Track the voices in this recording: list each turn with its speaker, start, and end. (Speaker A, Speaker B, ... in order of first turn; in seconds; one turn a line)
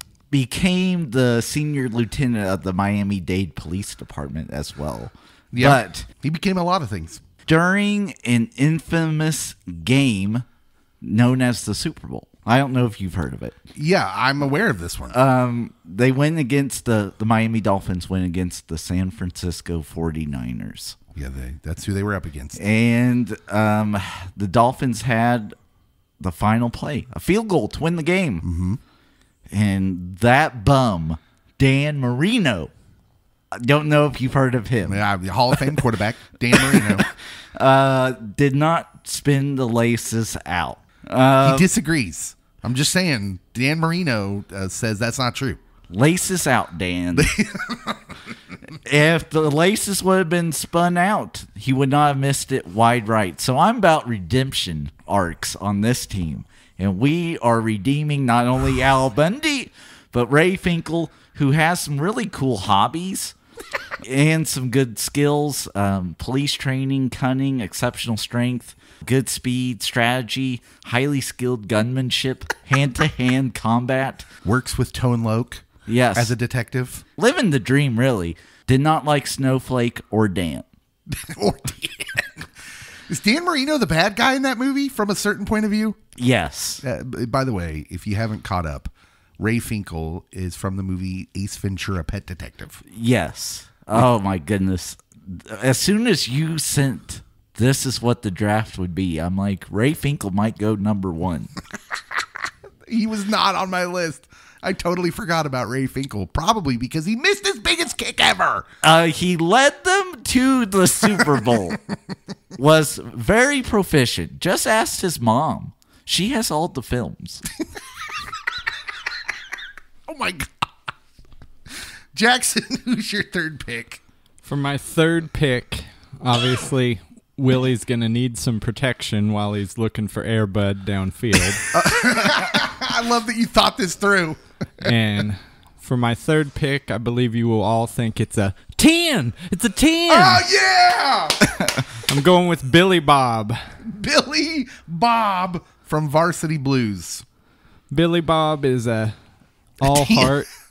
Speaker A: 0.3-6.1
Speaker B: 5.5-7.2
Speaker A: 7.5-10.4
Speaker A: 11.0-13.6
Speaker B: 13.8-15.2
Speaker A: 15.1-21.0
Speaker B: 21.1-22.6
Speaker A: 22.6-25.6
Speaker A: 26.2-28.4
Speaker B: 28.4-28.8
Speaker A: 29.5-32.7
Speaker A: 33.5-35.7
Speaker B: 34.8-37.1
Speaker A: 36.6-41.7
Speaker B: 41.4-45.6
Speaker A: 45.9-47.3
Speaker B: 47.1-48.1
Speaker A: 48.9-63.4
Speaker A: 64.0-74.3
Speaker B: 74.4-77.0
Speaker A: 75.9-76.3
Speaker A: 77.2-80.7
Speaker B: 81.1-82.5
Speaker B: 83.1-86.0
Speaker A: 86.2-86.8
Speaker B: 86.8-92.8
Speaker A: 92.8-101.5
Speaker B: 102.9-108.7
Speaker A: 108.8-111.8
Speaker A: 112.6-117.4
Speaker B: 120.1-120.7
Speaker B: 122.1-124.0
Speaker C: 124.4-131.7
Speaker B: 131.7-134.9
Speaker C: 134.8-140.5
Speaker B: 140.1-141.7
Speaker C: 142.0-143.6
Speaker B: 143.8-147.2
Speaker C: 147.9-149.2
Speaker C: 149.8-150.5
Speaker B: 149.8-150.4